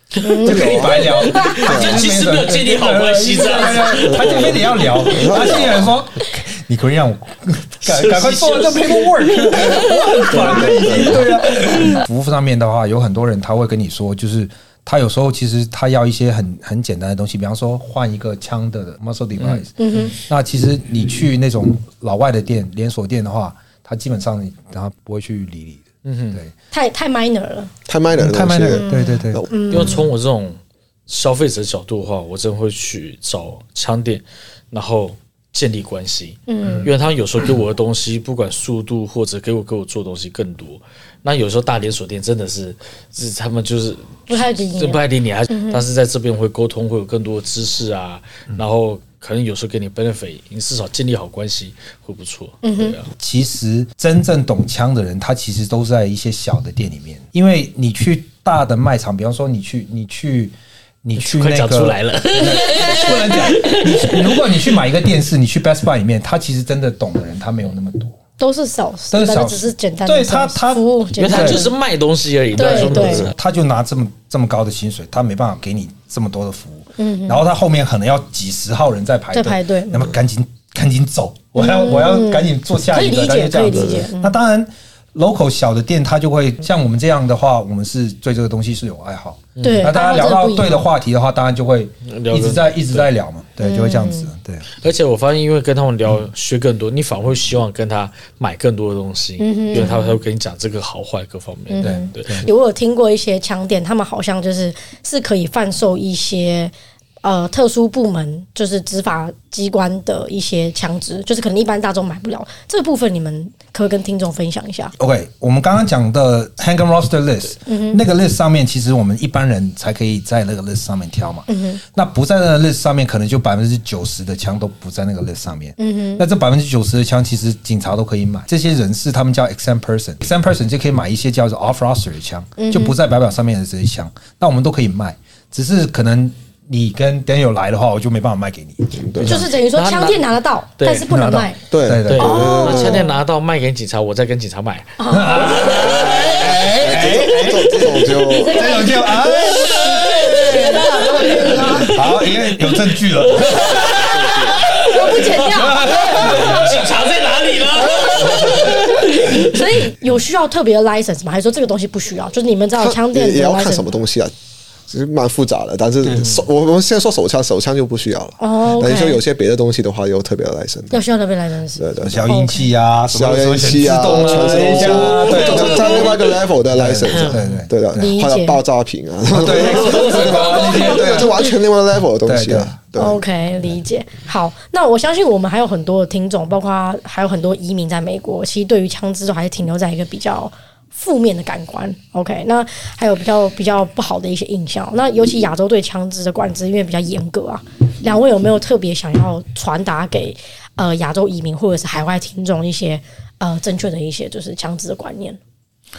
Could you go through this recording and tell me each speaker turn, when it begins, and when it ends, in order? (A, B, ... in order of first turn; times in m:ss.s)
0:00.2-0:05.4 A
0:00.2-0:01.7 B
0:00.4-0:26.5 C
0:00.5-0:01.0 D
0:01.6-0:02.0 D
0:04.0-0:06.0 D
0:07.8-0:12.0 A
0:10.3-0:11.2 D
0:19.4-0:19.7 A
0:19.8-0:20.2 B
0:26.0-0:26.4 A
0:26.7-0:27.7 B
0:27.9-0:29.5 D
0:28.1-0:29.4 C
0:28.7-0:30.1 B
0:29.7-0:53.1 A
0:36.5-0:36.9 B
0:44.3-0:45.8 B
0:52.6-0:53.0 B
0:53.2-1:08.2 C
1:01.2-1:04.7 A
1:08.4-1:11.8 B
1:09.1-1:11.6 C
1:11.2-1:13.4 A
1:12.6-1:13.3 B
1:12.6-1:34.7 C
1:17.0-1:17.5 B
1:19.3-1:20.1 B
1:21.6-1:24.4 B
1:23.7-1:24.0 D
1:29.6-1:30.0 A
1:29.6-1:30.9 B
1:32.1-1:33.1 A
1:33.6-1:34.3 B
1:34.8-1:42.5 A
1:39.4-1:40.2 B
1:41.7-1:54.9 B
1:41.8-1:42.5 C
1:55.0-2:19.5 C
1:57.6-1:58.0 B
2:01.5-2:01.8 B
2:05.8-2:06.2 B
2:12.6-2:13.0 B
2:18.9-2:19.4 D
2:19.2-2:21.6 B
2:19.8-2:20.2 A
2:20.8-2:21.1 A
2:21.1-2:22.5 C
2:21.7-2:23.1 D
2:22.0-2:24.9 A
2:22.1-2:23.1 B
2:25.0-2:32.0 B
2:25.1-2:36.8 C
2:26.8-2:28.8 D
2:33.3-2:39.4 A
2:33.8-2:34.6 D
2:34.7-2:36.7 B
2:37.9-2:43.9 B
2:38.2-2:38.5 D
2:38.3-2:38.9 C
2:42.8-2:44.3 D
2:44.9-2:51.0 D
2:46.0-2:46.3 C
2:48.4-2:49.2 B
2:50.9-2:52.7 B
2:51.8-2:52.2 D
2:52.0-2:56.1 C
2:53.1-3:03.2 D
2:54.3-2:56.3 A
2:54.6-2:55.7 B
2:56.7-2:58.1 C
2:58.0-2:58.6 B
2:59.3-3:01.5 C
2:59.8-3:00.7 A
3:00.1-3:01.3 B
3:02.2-3:02.7 C
3:03.0-3:25.4 B